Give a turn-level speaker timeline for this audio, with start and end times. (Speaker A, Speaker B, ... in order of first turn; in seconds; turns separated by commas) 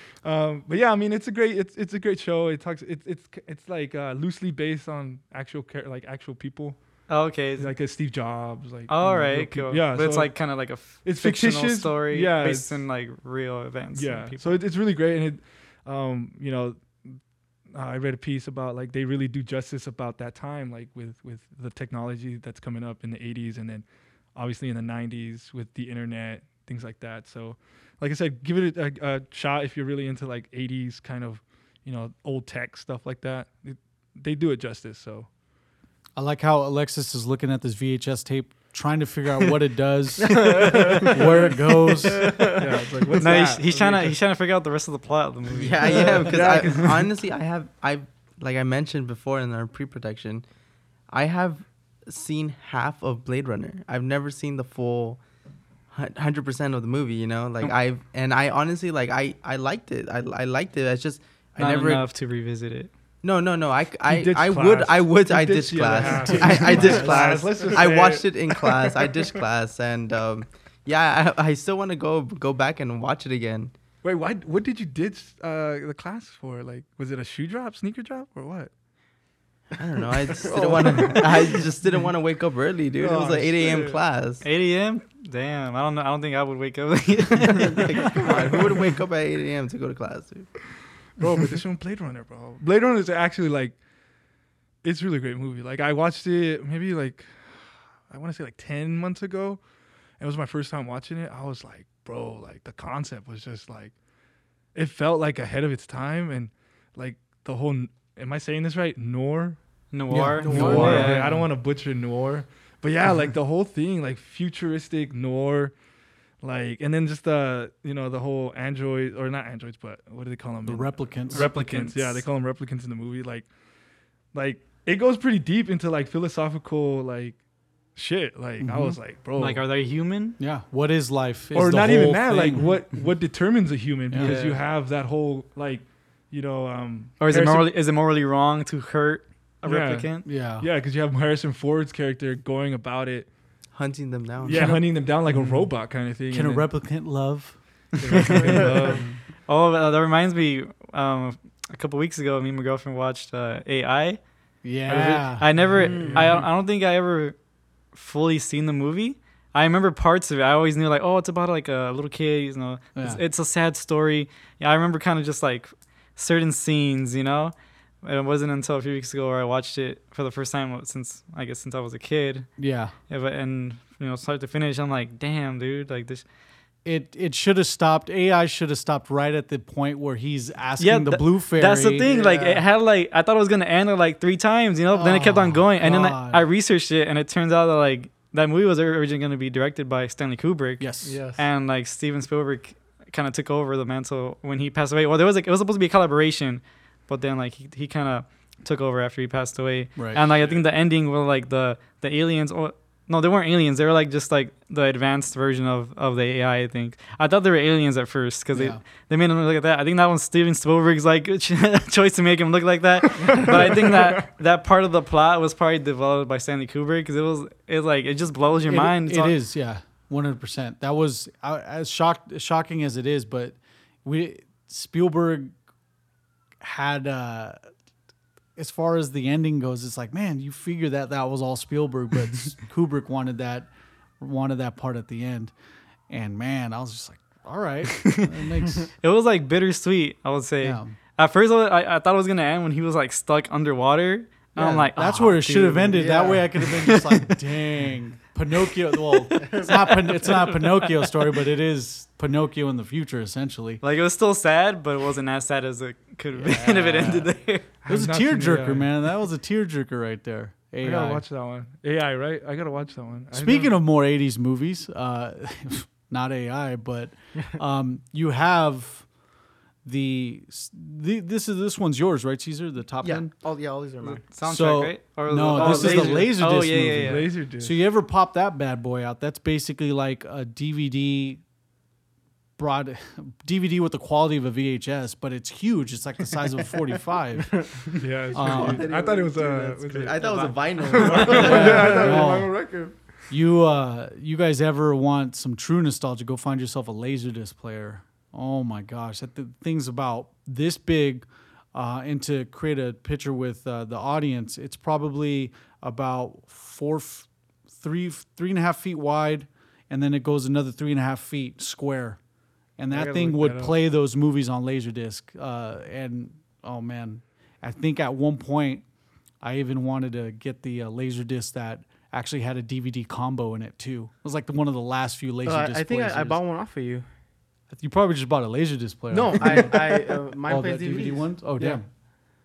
Speaker A: 0.2-12.8, Speaker B: 7.1-7.7, Speaker B: 8.9-14.6, Speaker A: 13.9-35.3, Speaker C: 36.1-42.5, Speaker D: 40.2-42.6, Speaker A: 40.5-41.5, Speaker A: 42.4-44.2, Speaker B: 43.2-46.7, Speaker E: 45.5-50.5, Speaker A: 45.9-47.1, Speaker E: 51.1-55.2, Speaker E: 55.9-62.1, Speaker B: 61.6-62.9, Speaker E: 63.2-73.7, Speaker A: 64.1-69.1, Speaker D: 66.0-67.8, Speaker A: 74.0-78.7, Speaker E: 79.8-84.4, Speaker D: 80.4-81.6, Speaker A: 80.5-81.6, Speaker A: 83.0-84.0, Speaker B: 84.4-88.4, Speaker E: 87.8-90.8, Speaker A: 88.2-88.7, Speaker A: 91.2-93.8, Speaker A: 94.8-104.0, Speaker A: 104.7-115.8, Speaker B: 109.9-111.2, Speaker C: 110.1-111.5, Speaker A: 116.4-129.6, Speaker C: 120.7-121.5, Speaker B: 121.3-122.2, Speaker C: 128.6-129.0, Speaker B: 129.3-130.4, Speaker C: 130.4-132.9, Speaker A: 131.5-137.7, Speaker C: 134.1-134.4, Speaker B: 134.2-134.6, Speaker B: 137.2-140.3, Speaker A: 139.7-143.3, Speaker C: 140.2-140.7, Speaker E: 143.7-144.7, Speaker A: 144.4-146.8, Speaker C: 144.4-148.5, Speaker A: 148.0-149.2, Speaker D: 148.4-149.0, Speaker B: 149.4-176.2, Speaker C: 154.6-155.8, Speaker A: 155.6-156.4, Speaker D: 155.7-156.3, Speaker C: 162.9-163.2, Speaker C: 172.6-173.0, Speaker C: 176.8-182.1, Speaker B: 180.8-219.4, Speaker D: 182.0-182.7, Speaker C: 184.9-186.4, Speaker C: 190.8-191.2, Speaker D: 191.0-191.5, Speaker C: 200.0-200.2, Speaker A: 200.4-200.6, Speaker C: 208.5-208.8, Speaker A: 213.4-214.1, Speaker C: 218.7-225.5, Speaker C: 226.6-227.7, Speaker C: 228.6-235.5, Speaker C: 236.1-238.9, Speaker B: 238.9-247.3, Speaker C: 240.6-241.0, Speaker C: 244.6-253.8, Speaker D: 246.0-246.4, Speaker D: 249.4-249.7, Speaker B: 249.5-251.2, Speaker B: 253.8-257.7, Speaker C: 256.4-261.3, Speaker A: 257.8-259.0, Speaker A: 260.8-263.8, Speaker C: 263.3-269.1, Speaker C: 269.8-273.3, Speaker E: 273.0-273.3, Speaker D: 273.3-274.3, Speaker B: 274.0-277.3, Speaker C: 274.4-281.4, Speaker E: 275.5-276.3, Speaker A: 277.0-277.8, Speaker C: 282.6-288.9, Speaker D: 287.5-288.0, Speaker A: 288.0-293.1, Speaker E: 288.3-292.2, Speaker B: 290.2-291.4, Speaker C: 291.3-318.9, Speaker D: 291.6-292.2, Speaker A: 312.9-313.8, Speaker C: 319.4-326.4, Speaker D: 325.4-327.1, Speaker C: 327.7-331.9, Speaker D: 329.1-331.5, Speaker A: 331.5-331.9